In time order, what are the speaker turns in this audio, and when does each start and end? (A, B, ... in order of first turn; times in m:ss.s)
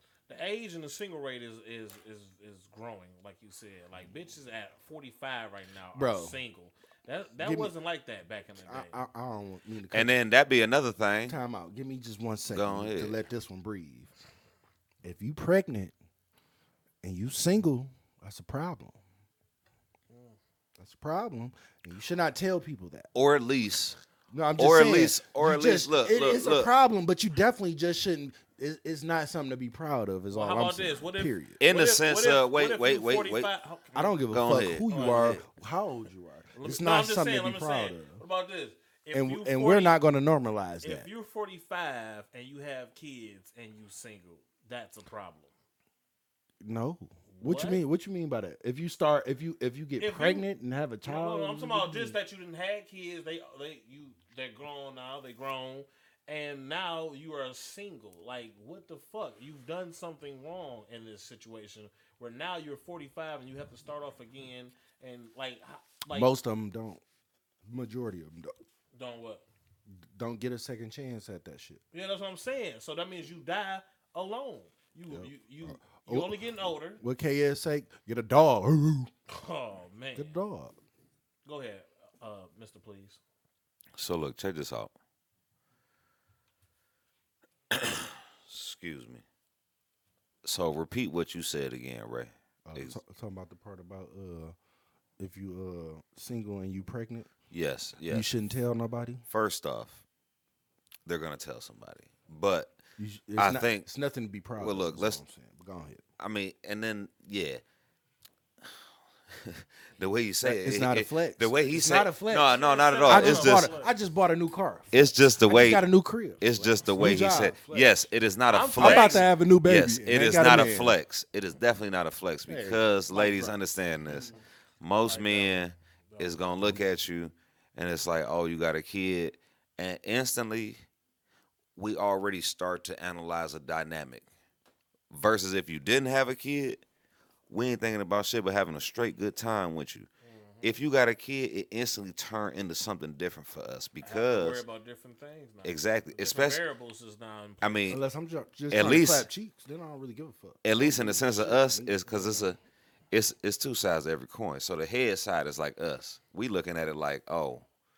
0:00.3-0:08.9 A
0:06.0-0:06.4 B
0:07.4-0:07.7 B
0:08.6-0:10.2 B
0:09.9-0:11.4 C
0:11.3-0:14.1 B
0:12.5-0:13.2 C
0:15.0-0:15.9 B
0:17.0-0:19.0 B
0:20.1-0:20.4 A
0:20.8-0:23.1 B
0:23.1-0:24.0 C
0:24.3-0:31.6 B
0:24.6-0:26.7 C
0:30.3-0:34.2 A
0:31.6-0:33.5 C
0:34.0-0:38.2 B
0:34.3-0:35.4 C
0:34.9-0:35.4 A
0:36.6-0:40.0 A
0:39.1-0:41.1 B
0:40.8-0:45.5 A
0:46.6-0:52.2 B
0:47.3-0:47.8 A
0:50.0-0:50.5 A
0:51.0-1:06.3 A
1:06.1-1:07.0 B
1:07.6-1:08.6 B
1:08.9-1:09.5 A
1:10.0-1:11.8 B
1:11.9-1:17.0 A
1:15.1-1:16.4 B
1:17.0-1:19.1 B
1:19.3-1:20.4 A
1:20.2-1:20.8 B
1:21.4-1:23.2 A
1:24.0-1:24.9 C
1:27.7-1:29.2 C
1:30.4-1:33.0 C
1:32.6-1:34.6 B
1:35.2-1:37.3 B
1:37.5-1:38.3 C
1:38.1-1:39.2 B
1:39.3-1:40.0 C
1:41.1-1:42.8 C
1:43.0-1:46.0 B
1:43.4-1:43.9 C
1:44.6-1:45.2 C
1:46.2-1:47.6 C
1:49.3-1:53.7 C
1:50.4-1:57.9 B
1:52.5-1:53.9 A
1:54.9-1:55.8 C
1:56.4-2:10.8 C
1:58.5-1:59.3 A
1:58.8-2:01.0 B
2:02.5-2:03.6 B
2:05.0-2:06.4 A
2:11.8-2:14.2 C
2:15.1-2:16.8 C
2:17.5-2:20.1 C
2:20.2-2:20.8 A
2:20.6-2:24.6 C
2:24.0-2:27.9 A
2:25.6-2:26.6 C
2:27.6-2:28.0 C
2:27.9-2:32.1 B
2:28.7-2:29.3 C
2:30.6-2:32.6 C
2:32.1-2:32.4 A
2:33.1-2:37.7 C